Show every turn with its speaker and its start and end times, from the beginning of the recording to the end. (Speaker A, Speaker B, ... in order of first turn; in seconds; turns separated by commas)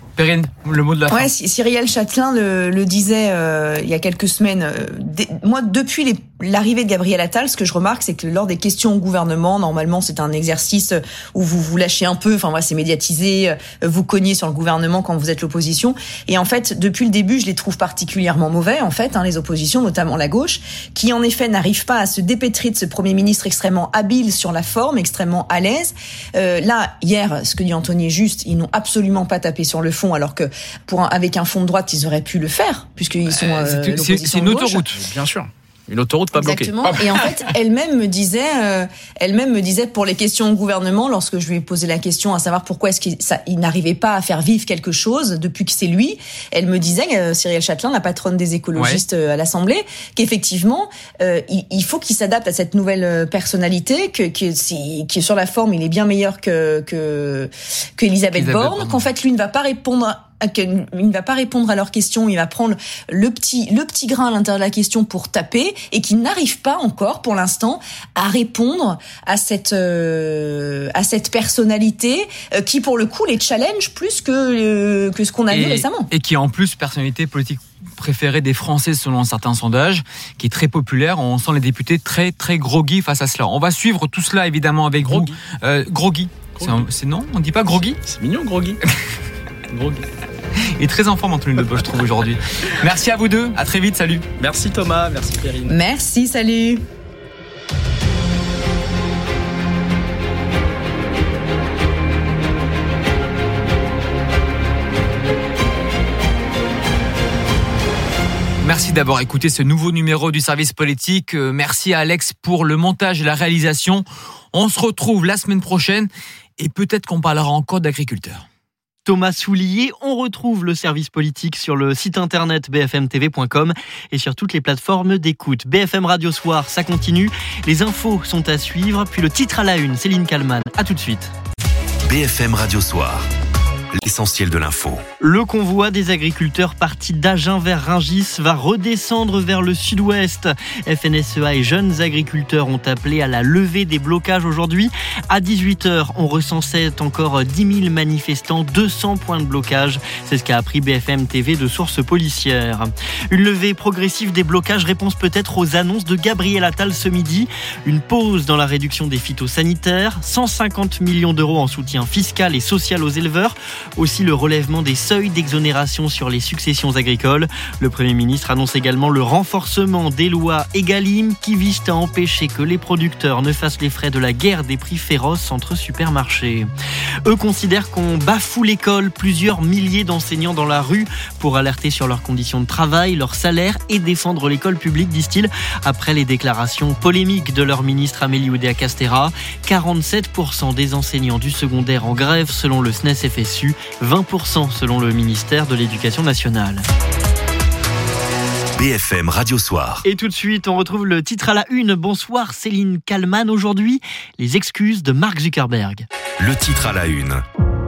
Speaker A: 0.1-1.3, Speaker B: 1.1-34.8, Speaker A: 33.3-34.9, Speaker C: 34.9-36.7, Speaker B: 36.4-76.1, Speaker A: 36.8-37.1, Speaker A: 48.8-49.0, Speaker A: 58.3-59.0, Speaker A: 75.5-88.0, Speaker C: 85.0-85.3, Speaker C: 86.6-86.8, Speaker C: 88.0-88.8, Speaker C: 89.7-90.0, Speaker A: 90.8-94.3, Speaker C: 94.4-95.7, Speaker B: 95.7-96.8, Speaker A: 108.6-118.4, Speaker D: 119.0-131.3, Speaker E: 132.0-133.3, Speaker E: 133.9-135.0, Speaker D: 135.2-176.7, Speaker D: 177.2-196.8, Speaker E: 198.8-200.0, Speaker D: 200.0-206.1, Speaker E: 206.4-207.4